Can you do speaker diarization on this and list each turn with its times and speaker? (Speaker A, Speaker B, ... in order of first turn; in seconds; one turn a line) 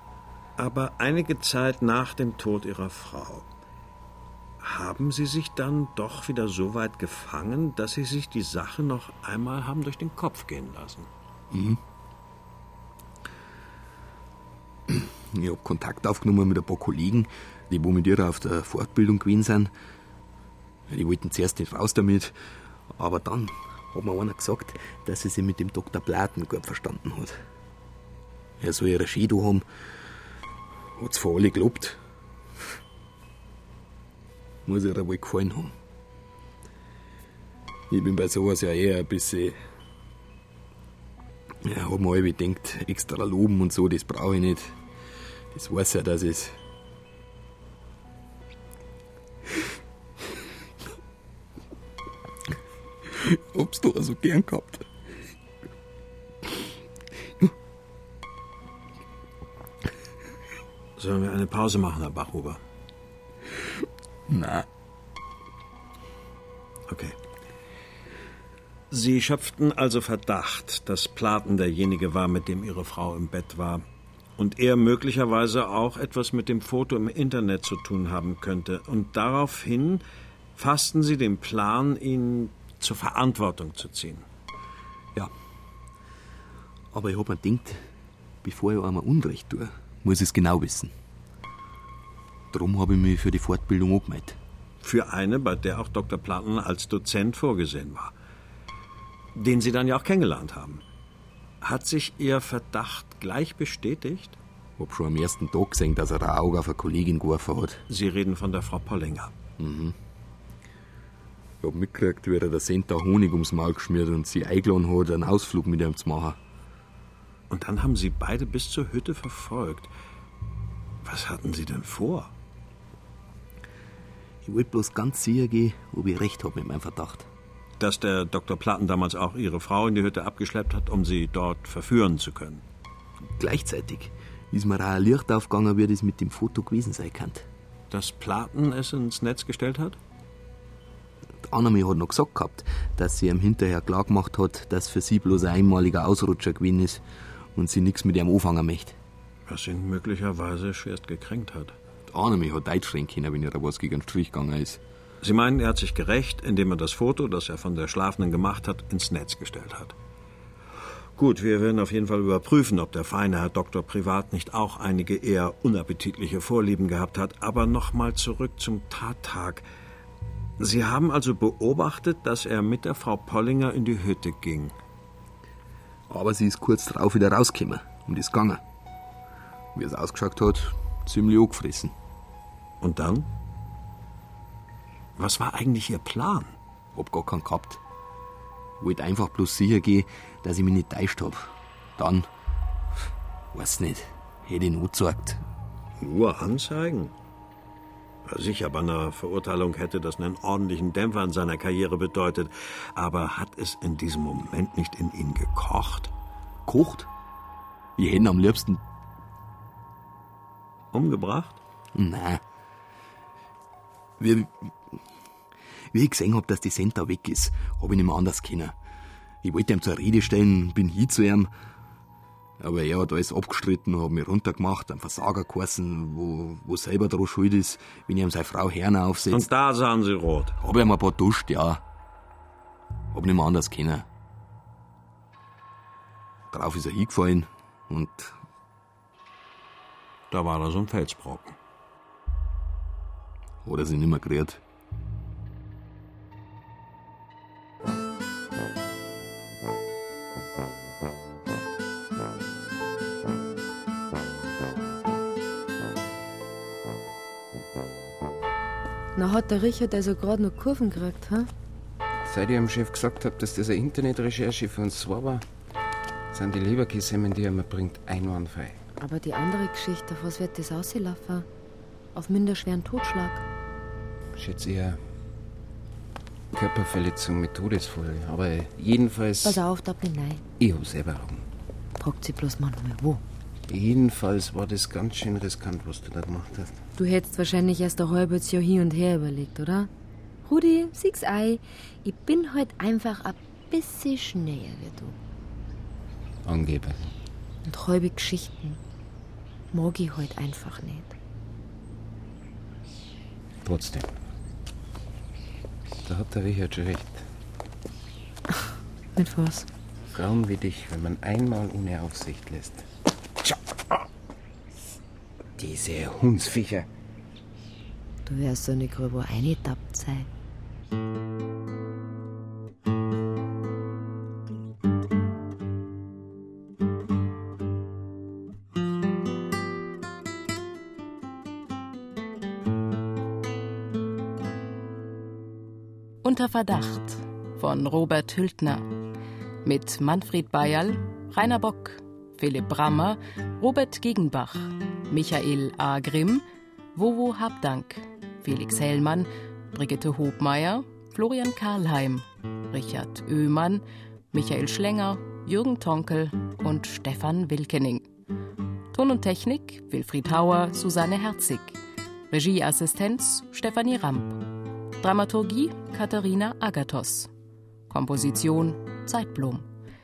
Speaker A: 0.6-3.5
Speaker A: 4.6-11.1
Speaker B: 11.5-11.8
Speaker B: 14.9-19.7
Speaker B: 20.9-22.3
Speaker B: 22.9-27.4
Speaker B: 28.6-29.6
Speaker B: 30.9-32.0
Speaker B: 34.6-35.7
Speaker B: 37.9-39.5
Speaker B: 41.6-44.8
Speaker B: 45.5-46.5
Speaker B: 53.2-54.9
Speaker A: 61.0-62.6
Speaker B: 64.3-64.7
Speaker A: 66.9-67.1
Speaker A: 68.9-73.8
Speaker A: 74.4-80.0
Speaker A: 80.5-84.2
Speaker B: 86.9-87.8
Speaker B: 88.4-90.9
Speaker B: 92.5-94.4
Speaker A: 94.8-98.1
Speaker A: 99.3-100.8
Speaker A: 101.6-104.4
Speaker B: 104.8-107.8
Speaker A: 107.9-109.3
Speaker B: 109.6-109.9
Speaker B: 111.6-116.4
Speaker A: 117.5-119.9
Speaker A: 121.0-122.3
Speaker B: 124.4-127.3
Speaker A: 127.8-132.6
Speaker B: 133.3-137.4
Speaker A: 137.9-140.0
Speaker B: 141.4-147.0
Speaker B: 147.5-148.9
Speaker A: 149.5-151.7
Speaker B: 152.1-154.8
Speaker A: 155.2-159.9
Speaker A: 161.2-169.7
Speaker A: 170.6-174.7
Speaker B: 176.1-178.6
Speaker B: 179.7-181.9
Speaker A: 182.8-183.3
Speaker A: 185.2-186.5
Speaker B: 186.9-187.8
Speaker B: 188.8-192.3
Speaker B: 193.5-195.4
Speaker A: 196.0-197.1
Speaker A: 198.2-206.1
Speaker B: 206.7-207.1
Speaker B: 208.0-208.8
Speaker A: 210.9-211.6
Speaker B: 211.9-212.4
Speaker B: 214.2-215.0
Speaker B: 215.9-218.7
Speaker B: 219.4-221.5
Speaker B: 222.6-229.5
Speaker A: 229.3-230.5
Speaker B: 230.6-231.8
Speaker B: 233.1-234.1
Speaker B: 236.5-238.3
Speaker A: 240.3-241.6
Speaker B: 243.6-244.6
Speaker C: 259.1-261.5
Speaker D: 262.2-265.4
Speaker D: 266.3-268.8
Speaker C: 269.0-271.5
Speaker C: 272.1-273.4
Speaker D: 274.3-275.0
Speaker D: 276.5-279.6
Speaker C: 279.4-280.4
Speaker D: 280.6-281.4
Speaker C: 282.0-283.2
Speaker D: 283.7-286.8
Speaker C: 287.0-289.9
Speaker C: 290.4-295.1
Speaker D: 296.4-297.1
Speaker C: 297.6-298.8
Speaker C: 299.7-301.1
Speaker D: 303.6-304.1
Speaker D: 306.0-307.3
Speaker C: 309.1-309.7
Speaker D: 310.1-312.9
Speaker D: 315.6-316.9
Speaker C: 318.2-320.3
Speaker E: 336.2-338.8
Speaker E: 339.6-358.1
Speaker E: 358.9-361.8
Speaker E: 362.3-364.4
Speaker E: 365.0-367.3
Speaker E: 367.9-369.7